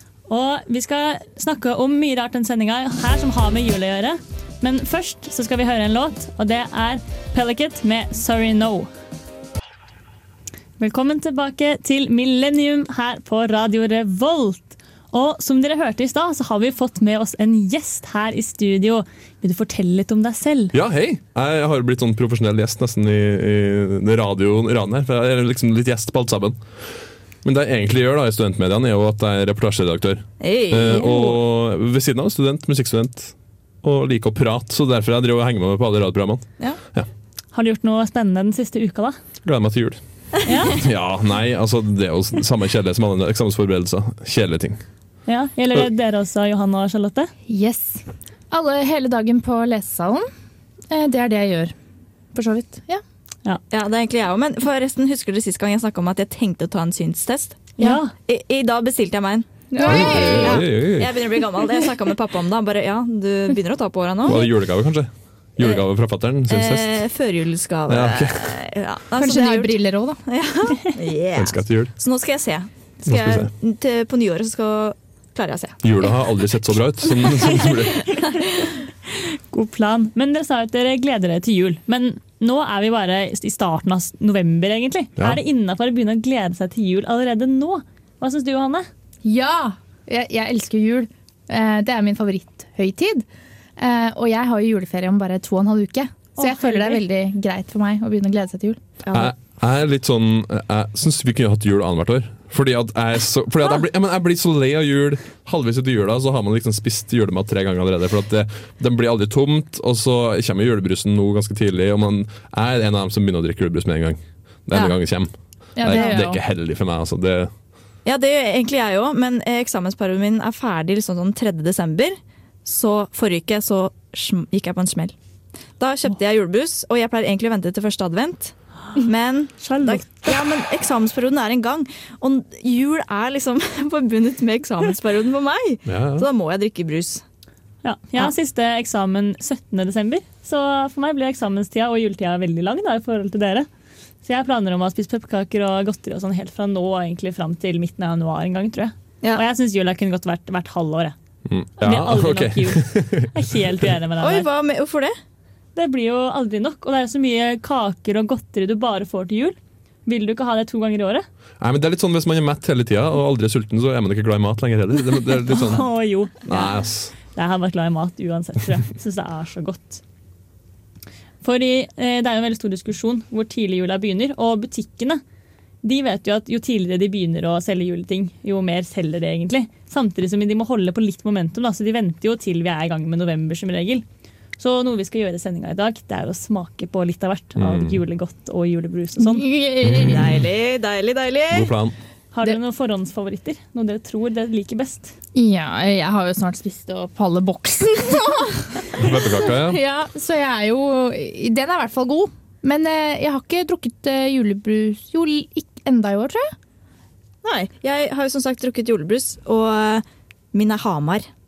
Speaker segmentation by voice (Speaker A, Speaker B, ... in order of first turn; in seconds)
Speaker A: 0.3-8.9, 10.8-20.7, 37.5-39.2, 40.4-40.9, 45.2-47.3, 57.8-58.1, 77.3-88.9, 96.3-97.0, 129.6-130.4, 137.8-143.7, 144.2-151.2, 151.8-154.5, 155.7-161.2, 165.5-166.6, 167.2-170.0, 171.4-175.2, 175.8-184.0, 184.6-189.5, 192.3-195.2
Speaker B: 20.7-26.6, 27.4-37.1, 39.4-40.0, 40.6-44.8, 59.8-61.4, 64.2-67.0, 67.9-68.6, 71.3-71.9, 73.1-73.5, 75.8-78.1, 99.1-117.5, 135.8-136.3, 151.4-153.9, 161.6-165.9, 166.4-167.1, 187.6-188.0, 189.8-190.2, 191.5-192.0, 198.9-199.8
Speaker C: 30.4-31.4, 53.7-64.5, 65.6-65.8, 66.5-76.5, 77.2-78.6, 99.0-99.3, 118.0-125.1, 125.8-137.2, 154.2-155.2, 189.9-191.7, 207.4-211.3
Speaker D: 47.5-50.3, 50.9-51.7, 52.3-53.0, 59.7-60.6, 69.1-70.2, 89.2-98.8, 115.8-116.4, 189.2-190.2, 195.3-206.5